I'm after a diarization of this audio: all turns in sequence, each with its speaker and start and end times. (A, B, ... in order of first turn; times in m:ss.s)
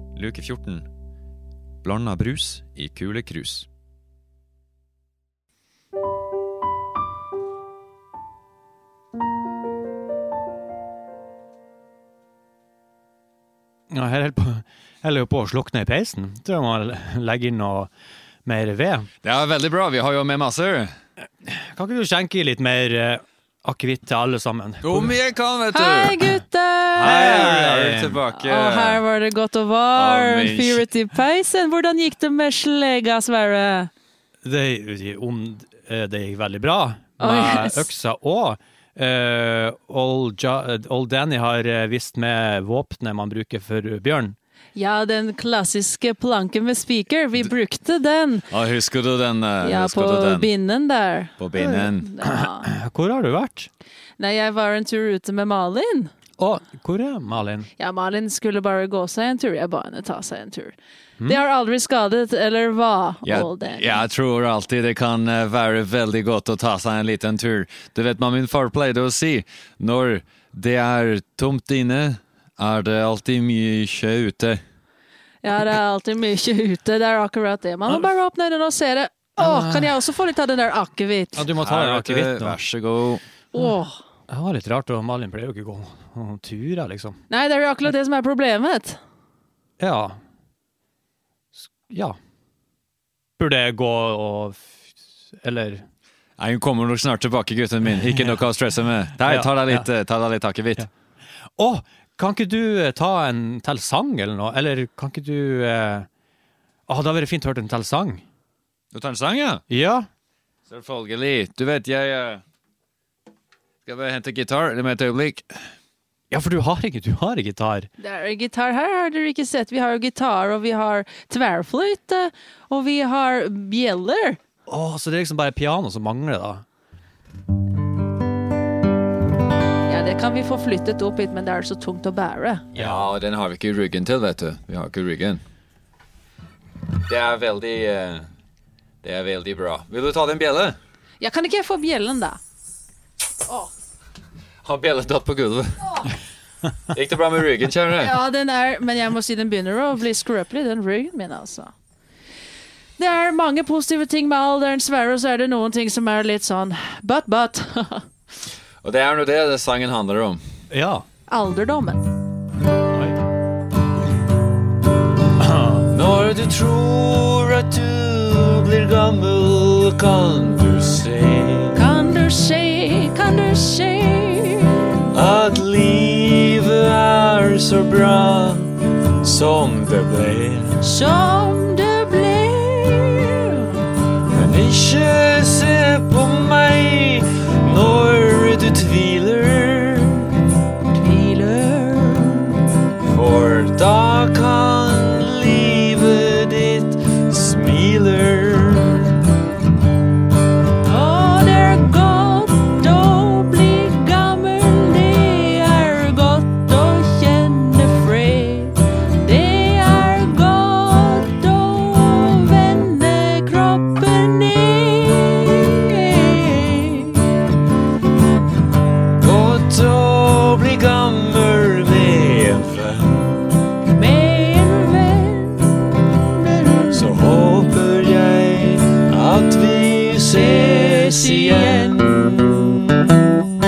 0:00.2-0:00.9 A
0:01.8-0:03.7 A
0:13.9-0:17.9 B
0:18.4-0:19.1 B
0:19.2-0:20.9 A
0:21.4-0:25.2 B
0:24.8-0:26.3 A
0:25.7-0:27.3 C
0:26.9-0:29.0 A
0:27.0-0:28.2 B
0:28.3-0:33.9 C
0:29.9-0:30.8 A
0:34.4-0:44.4 B
0:37.2-0:37.9 C
0:44.7-0:48.5 C
0:48.5-0:50.5 A
0:49.6-0:51.3 C
0:51.4-0:52.1 A
0:51.6-0:53.7 B
0:51.9-0:52.7 C
0:54.2-0:56.1 C
0:56.4-0:57.7 B
0:57.8-1:04.0 C
1:03.2-1:14.6 A
1:15.4-1:21.5 C
1:19.4-1:20.0 B
1:21.4-1:22.6 B
1:21.5-1:23.2 A
1:23.5-1:24.0 C
1:24.3-1:27.2 B
1:27.3-1:29.0 C
1:29.8-1:30.2 B
1:31.6-1:32.2 B
1:33.4-1:34.8 B
1:35.4-1:35.8 B
1:36.4-1:40.9 A
1:39.2-1:39.9 B
1:41.6-1:46.1 B
1:46.9-1:48.2 B
1:48.9-1:49.6 A
1:49.7-1:50.1 B
1:50.7-1:52.4 A
1:53.9-1:55.5 A
1:56.3-1:57.9 B
1:58.0-2:04.4 C
2:04.7-2:06.6 B
2:09.9-2:12.6 C
2:12.7-2:15.4 A
2:12.7-2:13.1 B
2:17.1-2:18.3 A
2:19.0-2:20.8 A
2:21.2-2:22.4 C
2:24.6-2:26.0 A
2:26.9-2:28.2 A
2:27.9-2:31.7 C
2:33.0-2:38.0 C
2:38.8-2:40.4 A
2:40.7-2:41.0 B
2:41.3-2:42.1 C
2:42.9-2:43.2 B
2:45.4-2:45.8 B
2:45.9-2:51.8 A
2:51.7-2:55.0 C
2:55.1-3:00.8 A
3:00.8-3:03.8 C
3:04.3-3:10.3 A
3:10.9-3:12.6 C
3:13.1-3:19.2 A
3:20.8-3:37.4 C
3:39.2-3:43.4 A
3:43.9-3:47.0 C
3:46.9-3:53.0 A
3:50.3-3:52.1 C